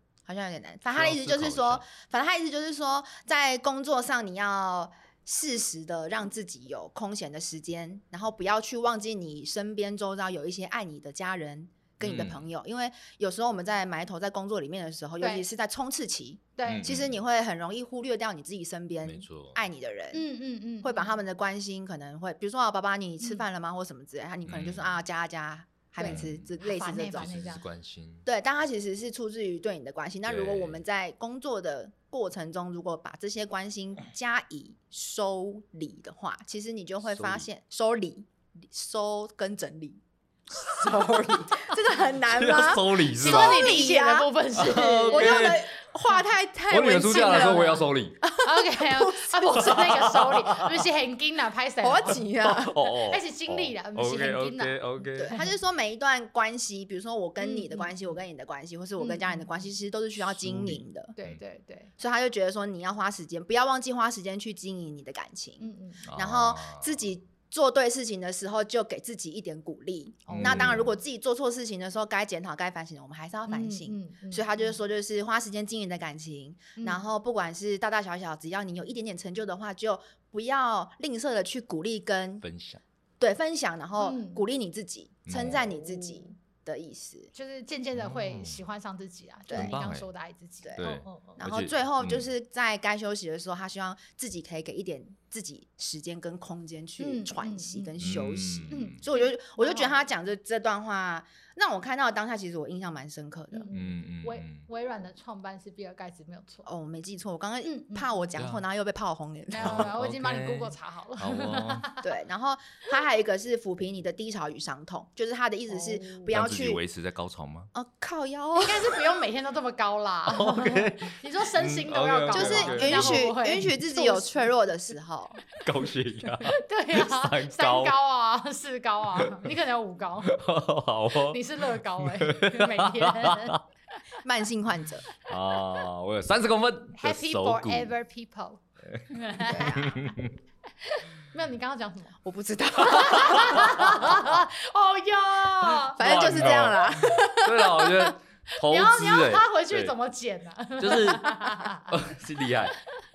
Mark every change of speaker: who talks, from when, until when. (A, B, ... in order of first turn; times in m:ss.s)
0:00.3-0:20.3 A
0:00.9-0:01.8 B
0:12.0-0:12.4 B
0:15.2-0:15.5 C
0:16.6-0:17.0 C
0:16.7-0:17.2 B
0:19.0-0:19.6 B
0:20.1-0:21.2 C
0:20.8-0:27.3 A
0:24.4-0:25.0 B
0:26.0-0:27.6 C
0:26.0-0:28.2 B
0:28.2-0:44.3 A
0:30.2-0:30.8 B
0:37.0-0:37.5 B
0:40.6-0:41.8 B
0:42.3-0:43.7 B
0:43.2-0:45.6 C
0:44.6-0:45.7 B
0:45.1-0:49.8 A
0:46.7-0:48.2 B
0:47.0-0:47.8 C
0:48.4-0:52.2 C
0:49.5-0:50.8 B
0:51.8-0:52.8 A
0:52.4-0:55.4 B
0:52.8-0:55.5 C
0:55.2-1:01.2 A
0:57.4-0:57.9 C
0:59.0-0:59.5 C
1:00.3-1:01.4 B
1:01.2-1:01.9 C
1:02.0-1:22.4 A
1:05.6-1:06.1 C
1:06.1-1:07.0 B
1:10.3-1:10.8 C
1:10.3-1:10.9 B
1:13.5-1:14.8 C
1:16.8-1:17.0 C
1:22.4-1:22.8 B
1:23.2-1:27.3 A
1:24.0-1:24.4 C
1:25.3-1:25.6 B
1:25.3-1:26.3 C
1:27.3-1:31.4 C
1:28.0-1:28.6 B
1:29.5-1:29.8 A
1:29.5-1:30.1 B
1:30.8-1:32.3 B
1:31.4-1:43.7 A
1:37.0-1:37.9 C
1:38.0-1:39.0 B
1:38.7-1:40.0 C
1:43.5-1:46.7 C
1:43.7-1:44.7 B
1:46.7-1:49.9 A
1:47.6-1:48.1 C
1:48.4-1:48.6 B
1:49.5-1:52.0 C
1:49.6-1:51.9 B
1:52.0-1:56.8 A
1:55.7-1:56.4 C
1:56.3-1:57.7 B
1:57.7-1:59.0 A
1:58.6-2:04.6 C
2:00.3-2:03.3 B
2:02.3-2:05.4 A
2:05.6-2:08.0 B
2:06.5-2:10.4 C
2:10.3-2:13.6 B
2:11.2-2:13.6 C
2:14.2-2:15.1 A
2:15.3-2:18.0 B
2:17.0-2:20.1 C
2:18.9-2:20.4 B
2:19.4-2:19.9 A
2:20.8-2:22.2 C
2:22.2-2:24.3 A
2:22.8-2:26.0 C
2:25.8-2:28.1 A
2:26.0-2:29.9 B
2:28.6-2:31.9 C
2:30.8-2:32.8 B